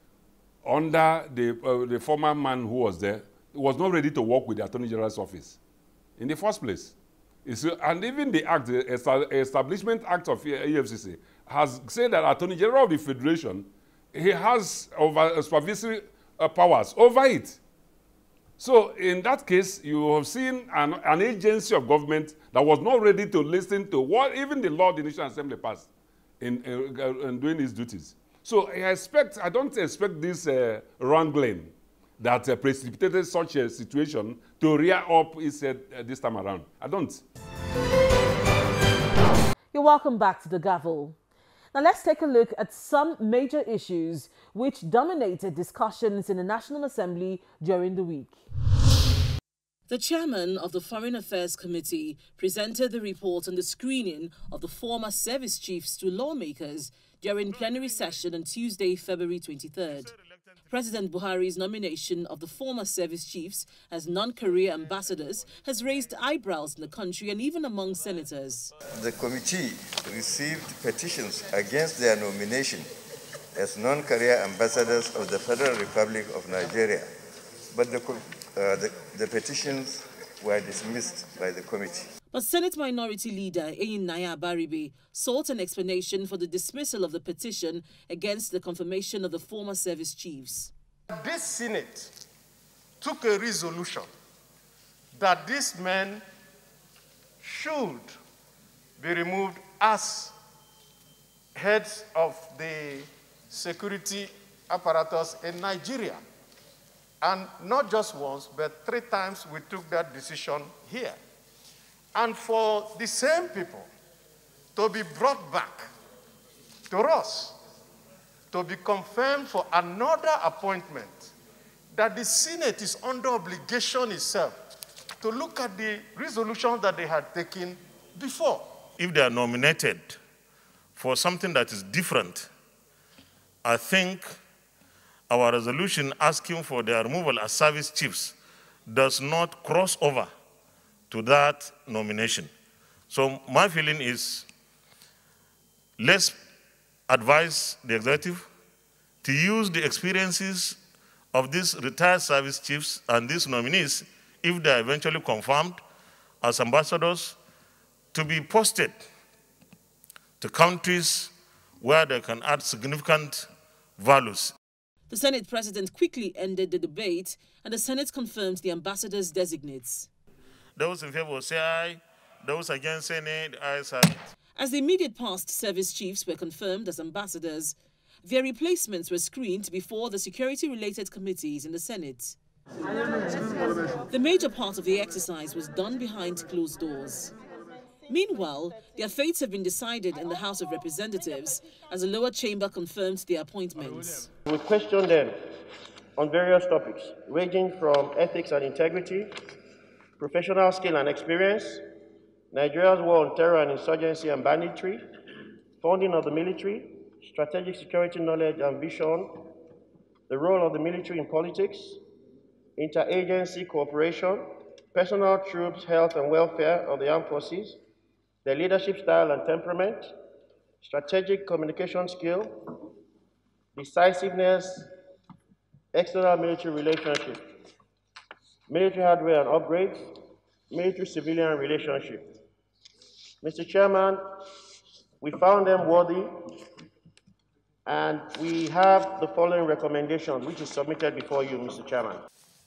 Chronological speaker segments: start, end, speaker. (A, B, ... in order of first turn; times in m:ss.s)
0:00.6-0:05.6 A
0:06.2-0:06.9 A
0:07.4-0:17.6 A
0:18.6-0:25.9 A
0:26.4-0:37.2 A
0:39.7-0:41.2 B
0:41.7-0:48.4 B
0:49.9-1:00.1 B
1:00.7-1:08.7 B
1:08.9-1:12.9 C
1:13.6-1:17.1 C
1:17.7-1:22.1 C
1:22.3-1:30.7 B
1:31.1-1:32.1 D
1:33.0-1:34.1 D
1:35.2-1:36.2 D
1:37.4-1:38.2 D
1:39.0-1:40.3 D
1:41.6-1:46.2 D
1:47.2-1:51.2 D
1:52.1-1:53.9 D
1:54.8-1:55.9 D
1:56.9-1:57.6 D
1:58.5-2:01.3 D
2:01.9-2:04.6 D
2:05.2-2:08.7 D
2:09.0-2:10.2 E
2:11.0-2:12.5 E
2:13.6-2:14.3 E
2:15.3-2:18.4 E
2:18.9-2:20.3 E
2:21.1-2:22.5 E
2:23.1-2:24.5 E
2:26.0-2:26.4 E
2:27.1-2:28.5 E
2:29.2-2:30.8 E
2:31.3-2:35.8 E
2:36.4-2:37.4 E
2:38.1-2:39.0 E
2:40.4-2:43.5 E
2:44.0-2:44.5 E
2:45.1-2:50.1 B
2:50.8-2:54.3 E
2:54.6-3:02.4 B
3:04.1-3:07.3 B
3:08.1-3:14.3 B
3:14.5-3:15.5 F
3:16.2-3:19.3 F
3:20.2-3:21.9 F
3:22.5-3:25.0 F
3:25.8-3:29.5 F
3:30.3-3:32.0 F
3:32.8-3:37.8 F
3:38.4-3:40.1 F
3:40.8-3:42.7 F
3:43.8-3:44.9 F
3:45.9-3:47.4 F
3:48.7-3:50.2 F
3:50.7-3:52.4 F
3:53.4-3:54.3 F
3:55.2-3:56.6 F
3:57.9-4:02.2 F